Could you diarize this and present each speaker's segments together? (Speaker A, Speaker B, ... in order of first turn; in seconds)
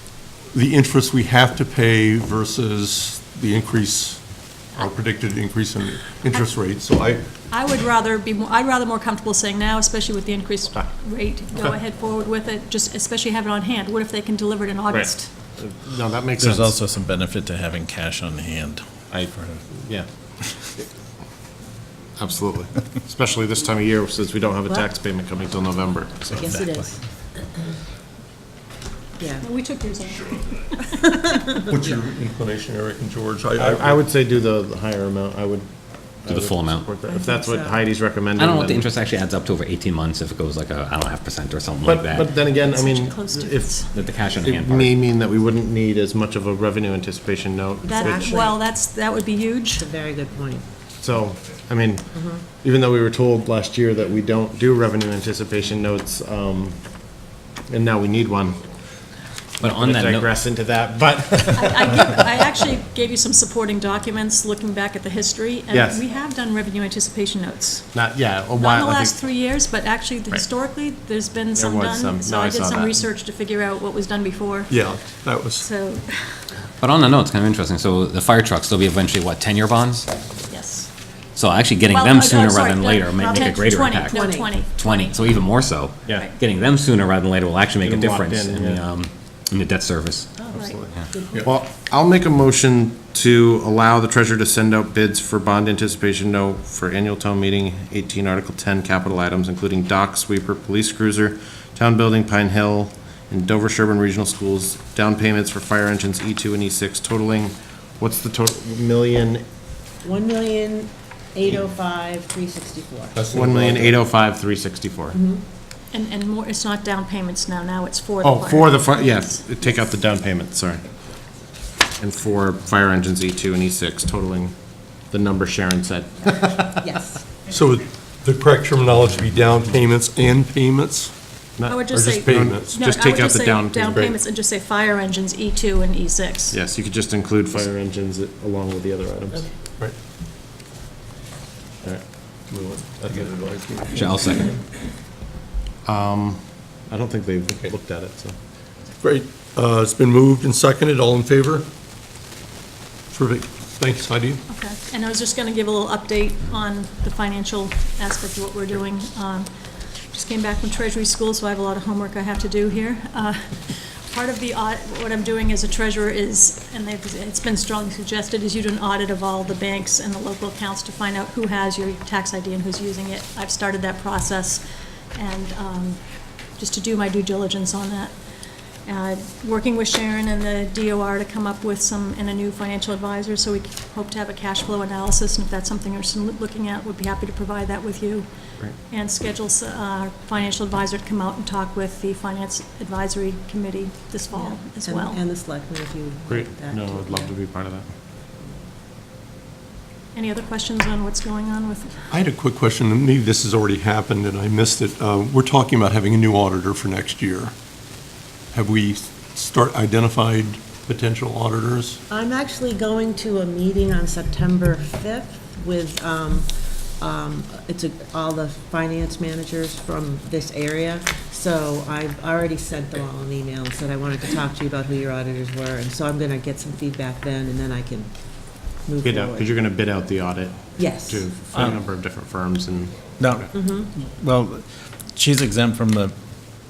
Speaker A: 0.5-7.2, 31.6-34.0, 74.7-75.7, 113.1-114.0, 127.5-131.1, 131.9-132.8, 142.5-144.6, 149.0-151.7, 153.1-154.4, 202.1-207.5, 208.5-212.0
Speaker B: 7.5-15.3, 29.4-31.5, 42.4-43.9, 47.9-49.9, 61.5-67.9, 68.5-74.8, 75.6-76.5, 80.5-80.9, 81.9-85.2, 115.9-119.9, 131.6-136.6, 154.5-159.5, 160.1-174.6, 175.1-176.0, 176.5-178.1, 178.8-188.3, 188.9-195.2, 200.1-202.1
Speaker C: 14.9-16.8, 19.1-20.1, 22.1-26.6, 33.6-35.7, 36.2-38.9, 41.8-48.3, 51.0-56.8, 57.7-58.6, 59.6-62.1, 65.7-66.0, 67.9-69.2, 71.5-73.1, 87.8-88.8, 90.5-109.4, 113.3-115.2, 118.2-120.8, 122.0-124.5, 125.1-126.8, 131.6-134.1, 136.5-139.4, 145.8-148.3, 196.3-197.9, 229.0-233.5
Speaker D: 16.4-19.6, 26.3-26.9, 231.5-231.8, 233.2-236.1
Speaker E: 26.5-26.9, 29.2-29.4, 37.1-37.8, 48.1-48.5, 49.8-50.7, 52.1-52.4, 83.2-84.5, 110.0-113.2, 115.1-115.4, 126.8-127.2, 194.3-197.3, 212.1-229.5, 230.8-231.1
Speaker F: 36.2-36.9, 38.4-42.3, 43.9-45.0, 59.6-60.3, 76.8-80.1, 81.3-90.3, 143.9-144.5